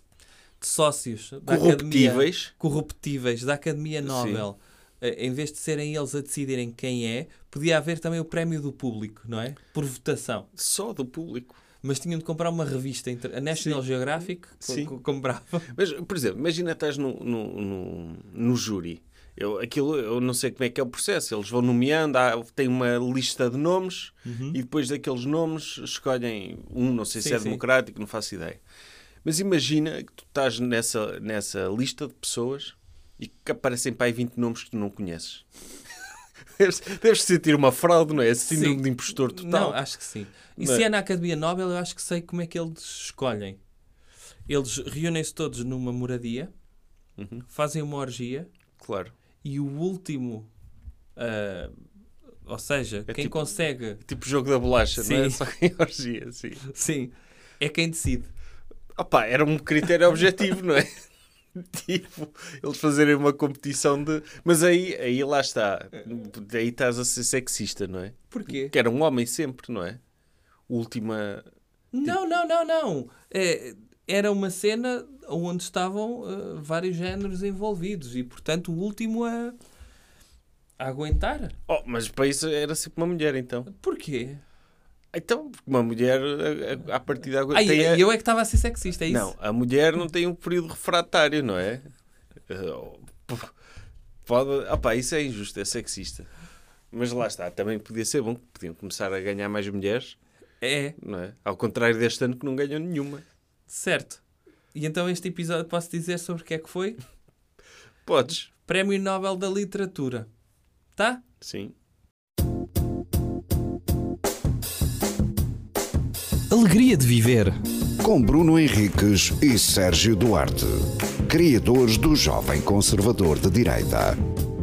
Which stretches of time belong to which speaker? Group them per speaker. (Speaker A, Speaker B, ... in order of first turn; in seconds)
Speaker A: 0.6-10.5, 11.8-15.7, 24.3-24.6, 27.1-27.6, 38.5-43.6, 44.5-46.5, 47.5-48.5, 49.4-50.5, 51.2-51.7, 52.5-54.0, 55.0-55.4, 56.6-58.3, 68.3-68.7, 71.9-79.6, 80.8-81.5, 83.7-84.4, 87.5-89.3, 100.6-101.0, 103.7-104.2, 104.7-107.0, 108.6-110.3, 111.0-111.2, 116.5-117.6
Speaker B: 1.5-2.5, 4.0-4.5, 10.6-11.6, 13.6-13.8, 14.6-14.9, 15.7-28.6, 29.2-35.5, 36.6-39.8, 40.6-40.9, 47.2-47.4, 48.8-49.1, 53.1-53.4, 54.0-56.6, 59.0-60.9, 61.5-70.0, 70.7-71.5, 81.7-83.7, 85.1-88.1, 89.1-91.9, 92.5-93.5, 94.3-96.3, 96.9-100.2, 101.0-103.2, 108.1-108.5, 111.4-111.7
Speaker C: 118.0-124.2